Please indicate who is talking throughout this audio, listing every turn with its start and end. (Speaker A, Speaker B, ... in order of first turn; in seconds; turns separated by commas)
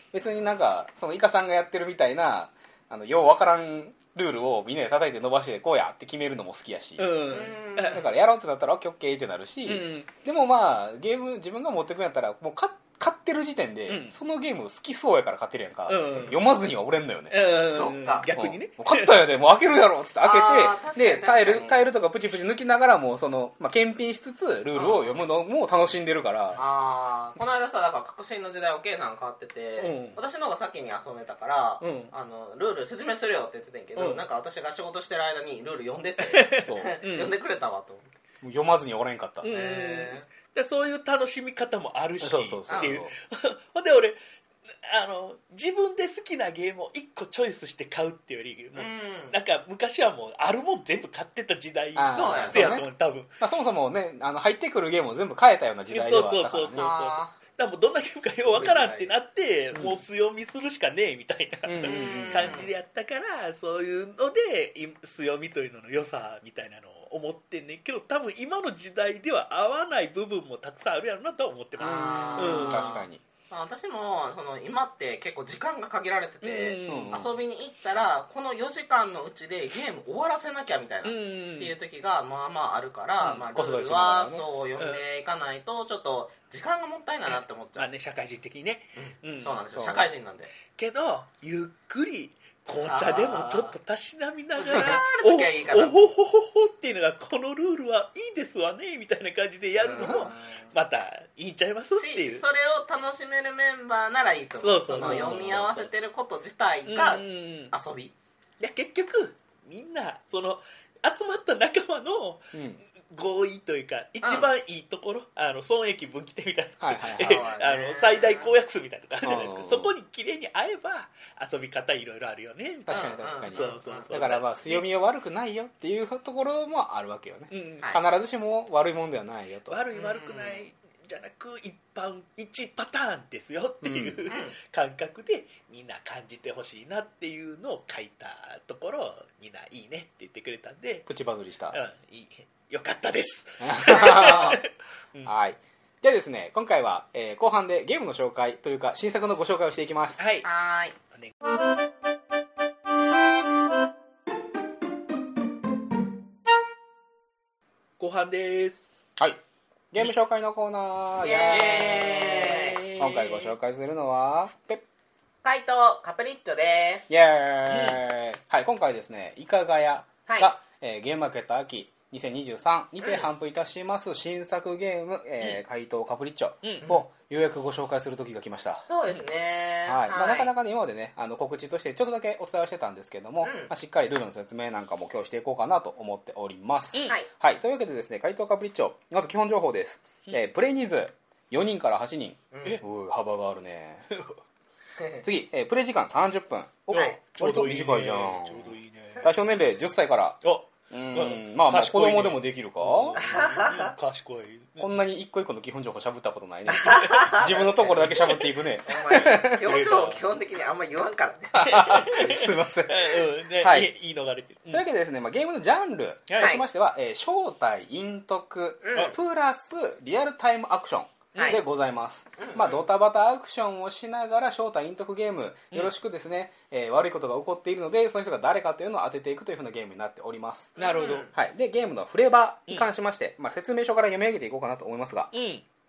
Speaker A: 0.1-7.1, Speaker B: 7.0-8.0, Speaker C: 7.3-8.1, Speaker A: 7.9-17.4, Speaker B: 9.7-10.1, Speaker B: 13.9-14.2, Speaker B: 15.9-16.4, Speaker B: 17.3-19.2, Speaker C: 17.6-18.3, Speaker A: 18.3-26.6, Speaker C: 20.2-21.8, Speaker C: 24.7-25.2, Speaker C: 26.6-38.1, Speaker B: 29.8-30.2, Speaker B: 31.8-32.1, Speaker B: 34.0-34.2, Speaker B: 36.2-37.3, Speaker A: 36.7-36.9, Speaker A: 38.4-39.5, Speaker B: 39.4-44.2, Speaker C: 39.5-40.3, Speaker A: 42.2-43.1, Speaker C: 42.7-43.0, Speaker B: 44.8-53.3, Speaker C: 48.8-49.4, Speaker A: 52.0-52.9, Speaker C: 52.1-52.8, Speaker A: 53.4-56.9, Speaker B: 55.9-73.0, Speaker C: 56.8-57.4, Speaker C: 58.3-59.1, Speaker A: 59.7-60.0, Speaker A: 61.7-62.7, Speaker C: 61.8-62.7, Speaker C: 71.8-87.9, Speaker A: 71.8-73.2, Speaker B: 76.4-77.2, Speaker A: 76.9-77.3, Speaker B: 81.0-81.7, Speaker A: 83.4-84.5, Speaker B: 87.3-89.7, Speaker C: 89.0-90.5, Speaker A: 89.8-90.1, Speaker B: 90.7-102.4, Speaker C: 92.8-93.7, Speaker C: 94.6-96.1, Speaker C: 99.8-100.7, Speaker C: 101.9-108.1, Speaker B: 104.6-105.8, Speaker A: 105.0-105.9, Speaker B: 106.9-107.7, Speaker B: 108.6-124.9, Speaker A: 112.5-112.8, Speaker C: 114.2-114.5, Speaker A: 116.8-117.4, Speaker C: 117.2-118.6, Speaker A: 119.2-119.9, Speaker A: 122.9-129.8, Speaker C: 122.9-124.1, Speaker B: 127.5-127.9, Speaker B: 129.7-141.1, Speaker C: 129.9-130.7, Speaker A: 133.8-134.3, Speaker C: 134.3-134.6, Speaker A: 141.1-141.8, Speaker B: 141.7-145.3, Speaker A: 143.6-144.6, Speaker C: 143.9-144.4, Speaker A: 145.2-150.3, Speaker B: 150.2-150.5, Speaker C: 150.4-151.0, Speaker B: 158.0-158.9, Speaker A: 159.9-162.0, Speaker C: 161.2-162.8, Speaker B: 161.5-163.5, Speaker A: 163.0-164.8, Speaker C: 165.4-167.1, Speaker A: 167.1-178.9, Speaker B: 167.7-168.0, Speaker C: 170.3-170.5, Speaker C: 173.0-173.3, Speaker B: 176.6-176.9, Speaker C: 178.9-180.5, Speaker A: 179.9-194.1, Speaker C: 183.4-183.7, Speaker C: 192.5-192.8, Speaker B: 194.1-194.4, Speaker C: 195.0-195.2, Speaker A: 195.2-203.2, Speaker B: 196.9-199.3, Speaker C: 196.9-197.2, Speaker B: 200.4-204.9, Speaker C: 203.2-203.9, Speaker A: 204.8-209.6, Speaker C: 206.7-207.7, Speaker B: 207.0-208.5, Speaker C: 208.9-211.7, Speaker B: 209.6-210.2, Speaker A: 211.6-213.9, Speaker B: 211.6-214.8, Speaker A: 214.7-230.8, Speaker B: 216.3-216.6, Speaker C: 216.4-216.6, Speaker C: 218.8-219.2, Speaker C: 221.3-221.6, Speaker B: 221.3-221.6, Speaker C: 222.4-222.8, Speaker C: 230.8-231.3, Speaker B: 230.8-231.3, Speaker A: 231.3-235.3, Speaker B: 235.3-235.7